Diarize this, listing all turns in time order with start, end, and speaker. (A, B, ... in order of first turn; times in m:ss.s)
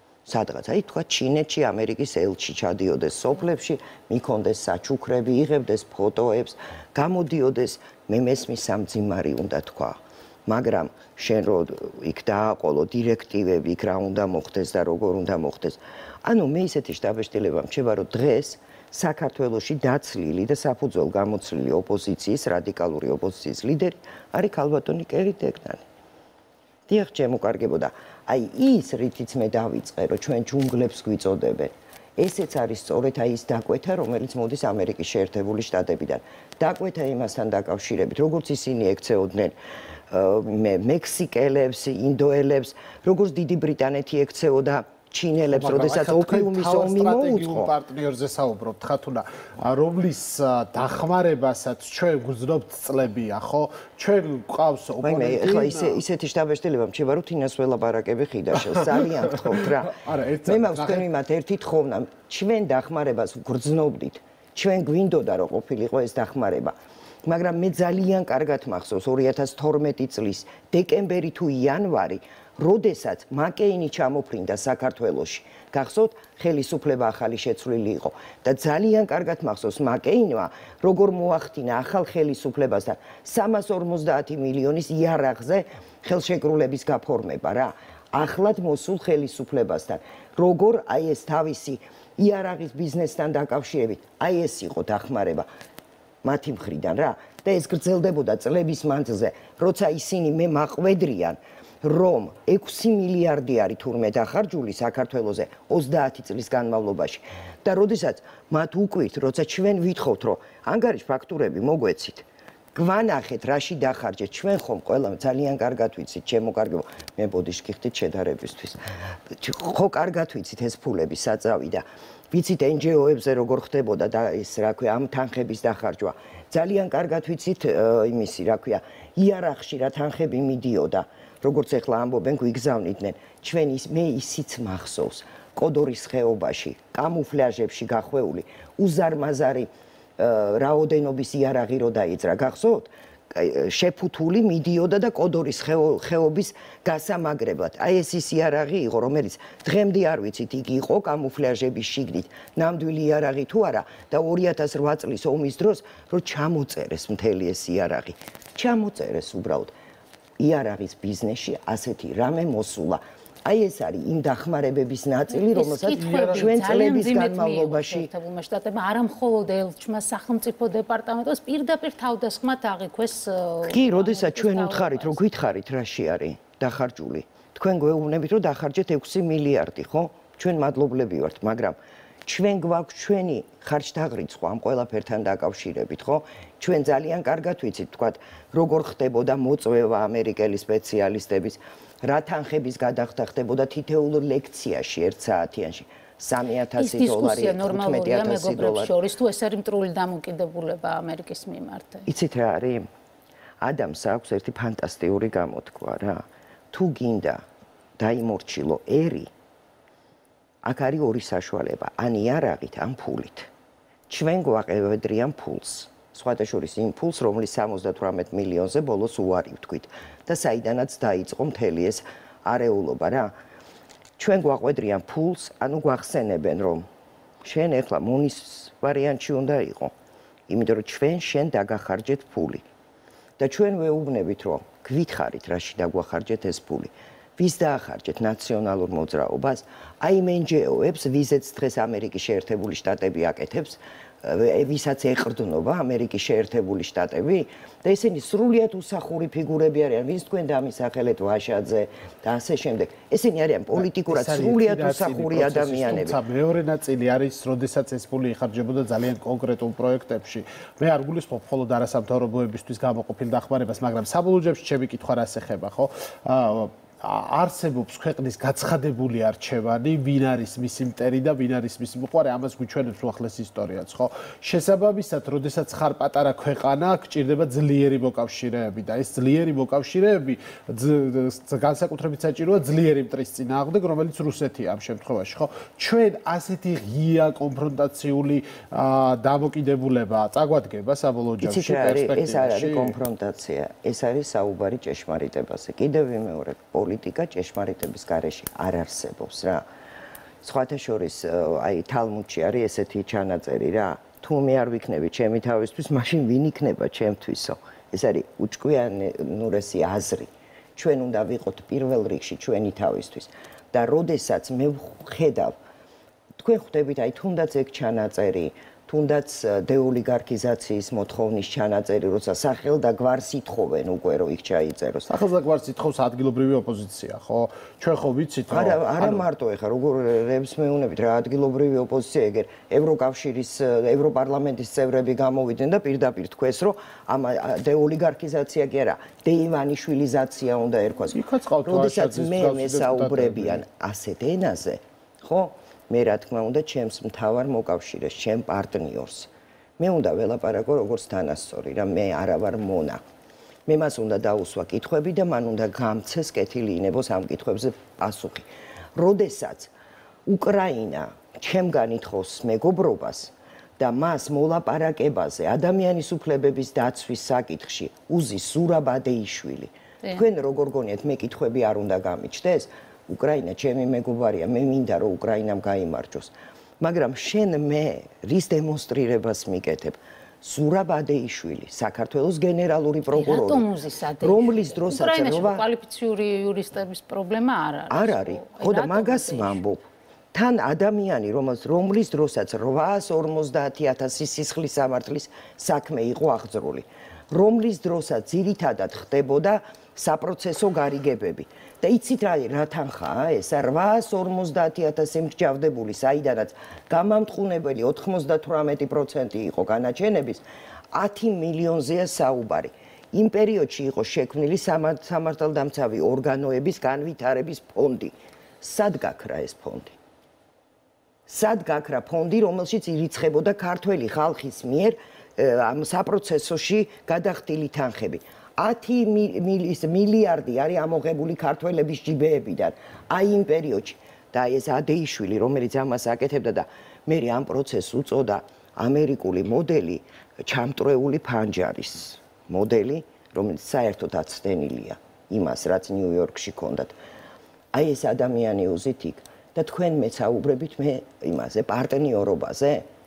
0:00.3-0:25.8 A
0:26.9-0:39.6 A
0:40.1-0:47.7 A
0:45.5-0:56.0 B
0:55.0-1:35.5 A
0:58.5-1:01.1 B
1:36.2-2:39.7 A
2:40.4-2:48.1 A
2:45.5-2:55.2 C
2:45.9-2:46.7 B
2:53.6-3:19.0 A
3:16.8-3:22.1 C
3:22.1-3:22.9 A
3:23.6-3:27.4 A
3:28.0-3:29.3 A
3:30.6-3:33.5 A
3:34.1-3:43.3 A
3:44.2-3:46.9 A
3:47.4-3:49.9 A
3:50.5-3:52.6 A
3:53.4-4:16.2 A
4:13.7-4:53.0 B
4:51.4-4:59.7 A
5:00.4-5:15.6 A
5:16.4-5:25.1 A
5:25.1-5:29.2 B
5:28.5-5:53.0 A
5:41.1-5:43.6 B
5:53.7-5:59.7 A
6:00.3-6:23.7 A
6:23.1-6:29.6 C
6:24.2-6:25.7 A
6:27.9-6:59.9 A
7:01.3-7:26.9 A
7:27.7-7:32.9 A